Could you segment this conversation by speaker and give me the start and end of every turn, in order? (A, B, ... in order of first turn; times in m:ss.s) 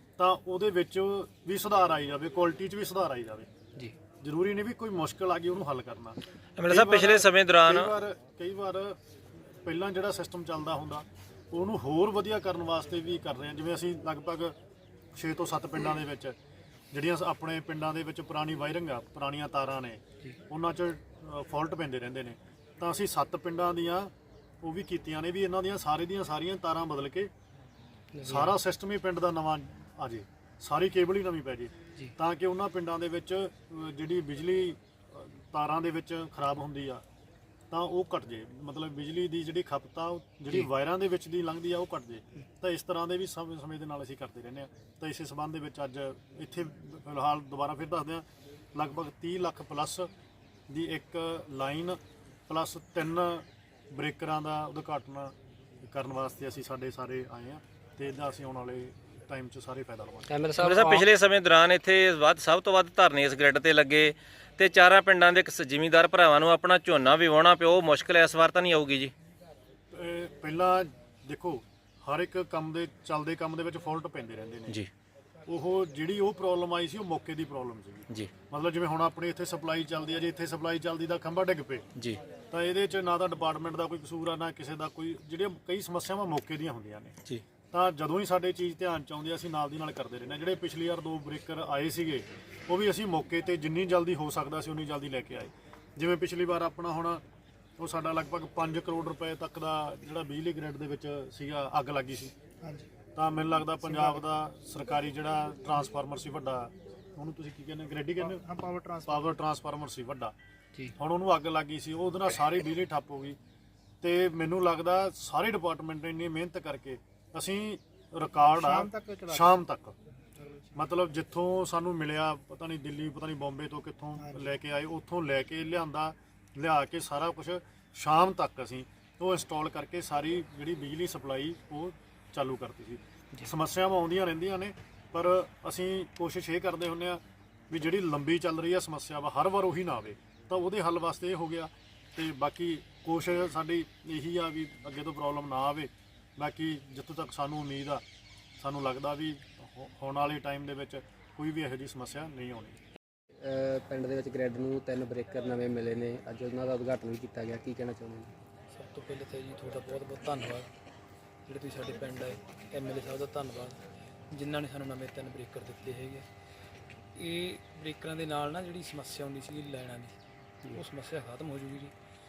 0:00.2-0:03.5 A
0:04.2-0:09.0 A
0:06.6-0:07.9 B
0:09.6-0:14.5 A
0:15.2-0:16.3 A
0:16.9-0:24.1 A
0:24.6-0:27.3 A
0:28.1-0:28.6 C
0:28.2-0:37.0 A
0:37.7-0:48.2 A
0:48.7-0:50.1 A
0:50.7-1:00.3 A
1:00.3-1:01.0 C
1:00.6-1:09.1 B
1:09.9-1:14.8 A
1:15.5-1:21.8 A
1:22.5-1:27.2 A
1:27.7-1:37.2 A
1:37.8-1:42.3 A
1:42.6-1:42.9 D
1:43.1-1:48.4 A
1:48.4-1:49.3 D
1:49.0-1:50.3 A
1:51.0-1:53.4 A
1:54.0-1:59.9 A
1:58.6-1:59.4 D
2:00.4-2:00.7 D
2:00.8-2:28.0 A
2:04.2-2:04.4 D
2:28.6-2:32.8 A
2:33.4-2:38.3 C
2:38.7-2:40.7 E
2:41.4-2:46.2 E
2:47.1-2:50.1 E
2:50.7-2:51.9 E